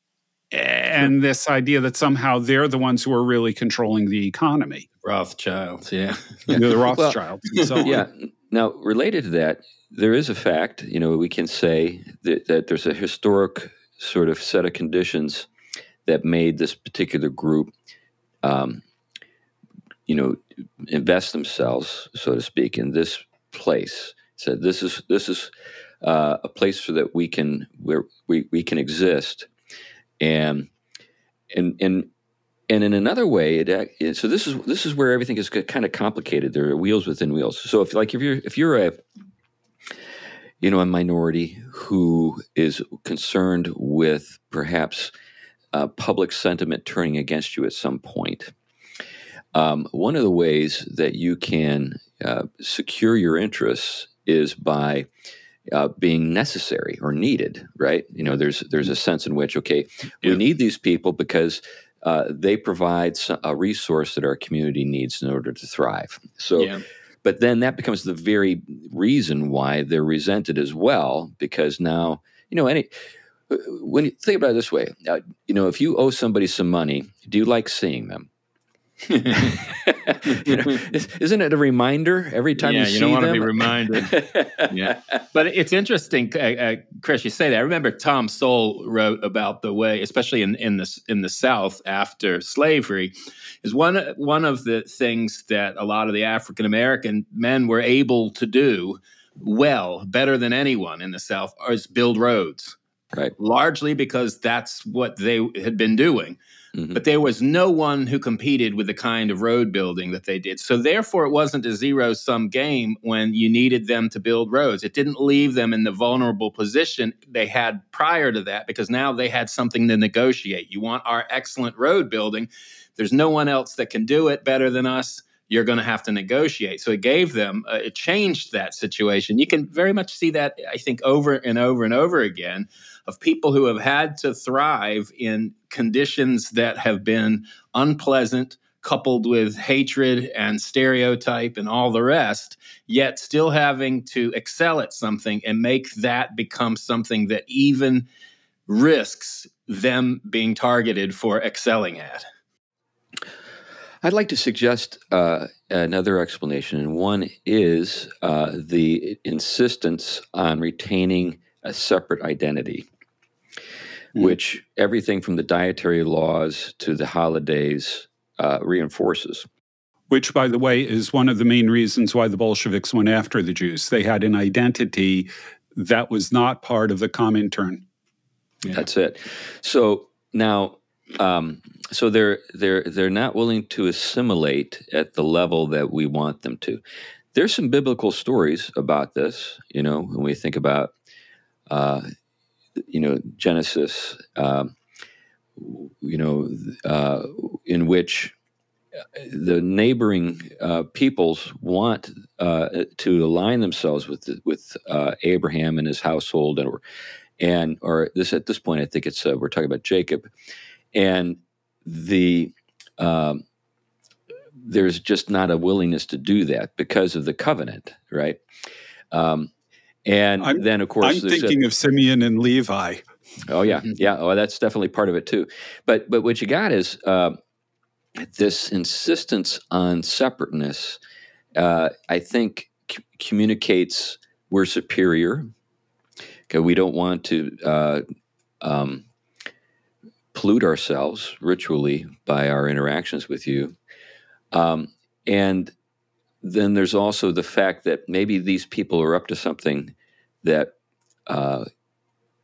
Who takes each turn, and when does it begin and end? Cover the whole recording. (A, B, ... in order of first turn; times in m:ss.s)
0:00.5-0:04.8 A
0:05.0-0:06.6 B
0:06.5-0:08.0 A
0:07.7-0:15.5 C
0:16.0-0:17.7 C
0:18.4-0:18.8 C
0:20.1-0:25.5 C
0:26.0-0:29.5 C
0:30.2-0:30.7 C
0:31.5-0:32.1 C
0:32.7-0:39.0 C
0:40.6-0:45.1 C
0:45.7-0:48.5 C
0:49.5-0:55.1 C
0:55.7-1:06.7 C
1:07.2-1:12.9 C
1:13.5-1:18.3 C
1:19.1-1:19.6 B
1:19.3-1:25.2 C
1:20.3-1:20.7 B
1:22.6-1:24.1 B
1:24.7-1:42.8 B
1:43.4-1:46.4 B
1:46.9-2:28.0 B
2:28.7-2:32.2 B
2:34.0-2:42.9 C
2:44.1-2:49.5 C
2:50.1-2:57.8 A
2:58.7-3:06.8 C
3:07.3-3:10.9 C
3:11.7-3:12.1 C
3:12.8-3:14.7 C
3:15.6-3:18.3 C
3:19.1-3:26.8 C
3:27.4-3:30.3 C
3:30.9-3:33.4 C
3:34.6-3:38.4 C
3:39.1-3:39.5 C
3:40.0-3:41.6 C
3:40.4-3:43.0 A
3:43.5-3:47.4 C
3:48.2-3:51.0 C
3:51.6-3:55.5 C
3:56.5-3:58.0 C
3:58.6-3:59.0 C
4:00.3-4:03.8 C
4:04.5-4:05.7 C
4:06.4-4:10.7 C
4:11.3-4:11.6 C